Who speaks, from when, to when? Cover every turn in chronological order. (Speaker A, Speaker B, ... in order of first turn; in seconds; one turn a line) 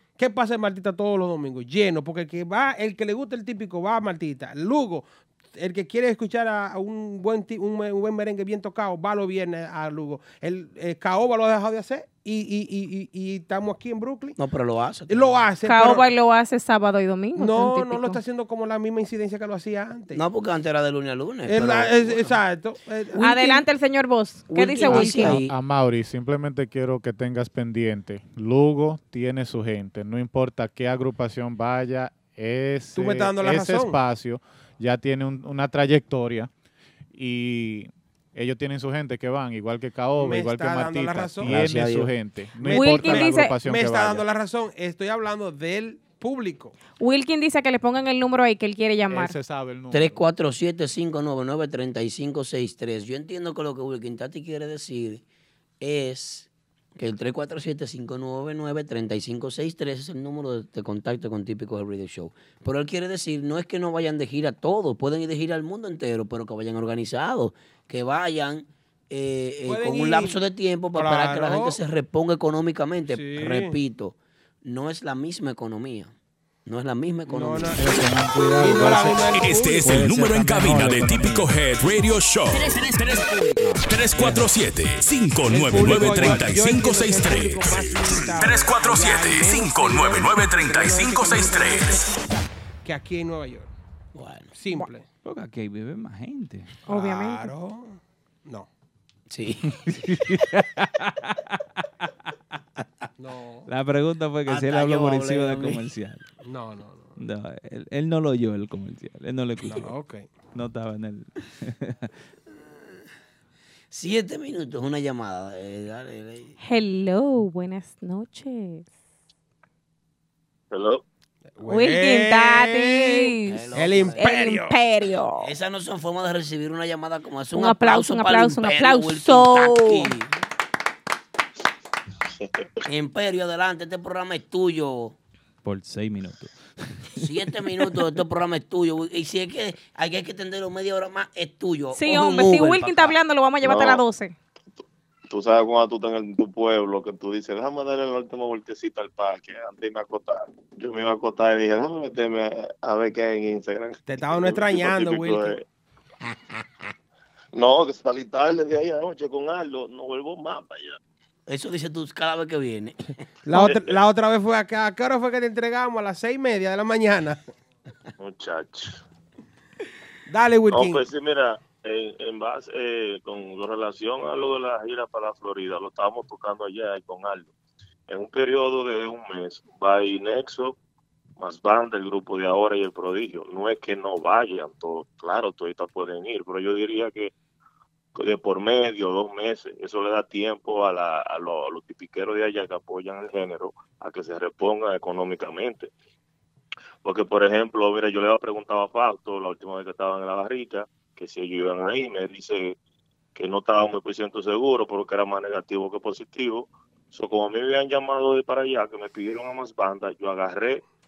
Speaker A: 0.2-14.4
Speaker B: 14.4-15.4
Speaker A: 15.1-16.1
Speaker C: 15.7-18.2
Speaker A: 17.4-20.2
Speaker B: 20.1-22.4
Speaker A: 21.5-23.6
Speaker C: 23.2-25.4
Speaker B: 24.5-25.5
Speaker D: 24.9-36.5
Speaker A: 33.0-34.0
Speaker D: 37.1-44.2
Speaker A: 40.2-41.7
Speaker B: 41.4-42.1
Speaker A: 42.6-46.8
Speaker C: 42.6-43.5
Speaker C: 47.0-49.4
Speaker D: 49.1-50.2
Speaker B: 49.9-55.2
Speaker B: 55.8-76.1
Speaker A: 69.7-70.4
Speaker A: 70.9-71.8
Speaker A: 73.1-73.8
Speaker B: 76.7-77.8
Speaker A: 77.3-77.9
Speaker E: 77.8-81.5
Speaker A: 78.6-79.9
Speaker F: 79.3-83.3
Speaker B: 83.6-83.8
Speaker F: 83.8-92.0
Speaker E: 84.2-84.5
Speaker A: 85.5-93.7
Speaker B: 94.2-94.5
Speaker A: 94.5-95.1
Speaker E: 95.2-96.8
Speaker C: 96.9-97.5
Speaker A: 96.9-98.7
Speaker B: 99.3-100.3
Speaker E: 99.7-101.6
Speaker A: 103.2-103.7
Speaker E: 103.7-106.3
Speaker B: 104.5-105.8
Speaker A: 106.4-107.2
Speaker E: 107.2-109.9
Speaker A: 109.6-110.3
Speaker E: 110.5-112.1
Speaker B: 113.9-116.5
Speaker C: 116.6-118.9
Speaker G: 120.7-121.0
Speaker A: 121.6-124.8
Speaker C: 121.7-125.5
Speaker B: 123.5-124.3
Speaker B: 125.4-130.3
Speaker C: 127.5-130.1
Speaker G: 132.4-132.7
Speaker B: 132.9-135.2
Speaker E: 135.6-137.3
Speaker B: 137.2-143.2
Speaker C: 141.9-144.3
Speaker G: 143.6-144.0
Speaker G: 145.3-155.7
Speaker A: 154.1-155.6
Speaker G: 157.5-161.0
Speaker B: 161.5-163.1
Speaker A: 163.5-167.4
Speaker G: 163.5-164.0
Speaker G: 168.2-169.0
Speaker A: 170.3-171.1
Speaker G: 170.7-177.5
Speaker G: 178.1-180.8
Speaker G: 181.4-187.3
Speaker G: 188.2-195.9
Speaker G: 197.0-202.8
Speaker G: 203.3-210.8